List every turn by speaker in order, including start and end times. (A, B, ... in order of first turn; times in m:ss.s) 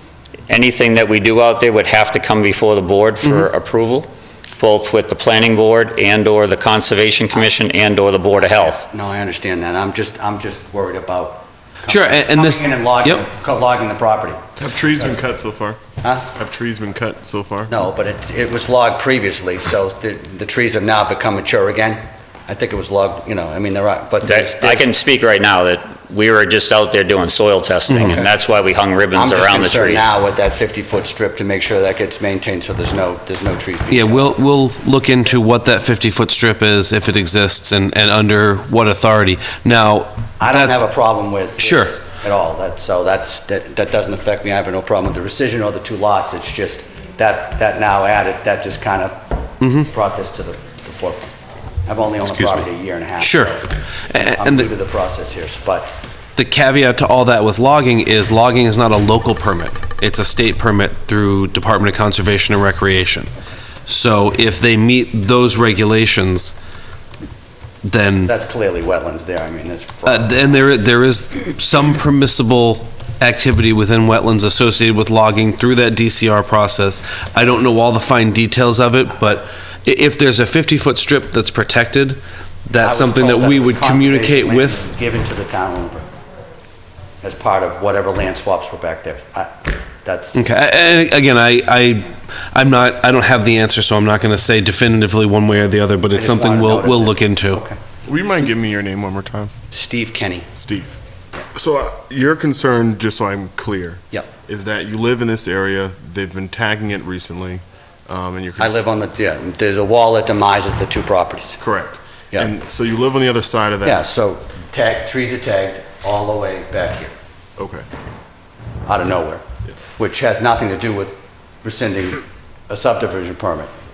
0:00.5-0:08.8 A
0:08.4-0:14.4 B
0:11.9-0:13.2 C
0:14.6-0:17.7 D
0:16.0-0:16.3 B
0:17.7-0:24.9 B
0:24.2-0:30.1 A
0:27.9-0:28.2 C
0:28.0-0:28.3 B
0:29.1-0:34.3 B
0:33.9-0:40.9 C
0:40.4-0:49.2 B
0:41.6-0:42.0 C
0:49.6-0:49.9 C
0:49.8-0:51.3 B
0:51.9-0:53.7 B
0:52.4-0:52.6 C
0:53.2-0:54.7 C
0:54.3-0:55.9 B
0:56.4-1:03.3 C
1:03.9-1:06.6 C
1:07.8-1:08.3 C
1:08.2-1:10.6 B
1:10.1-1:24.9 C
1:22.8-1:26.1 B
1:27.2-1:30.4 B
1:30.3-1:37.6 C
1:36.1-1:37.8 B
1:38.0-1:39.5 D
1:39.7-1:40.5 B
1:40.5-1:41.0 D
1:41.6-1:48.9 D
1:48.6-1:51.6 B
1:51.6-1:54.0 D
1:53.8-1:57.1 B
1:57.6-1:57.9 D
1:58.9-1:59.4 B
2:00.0-2:03.7 B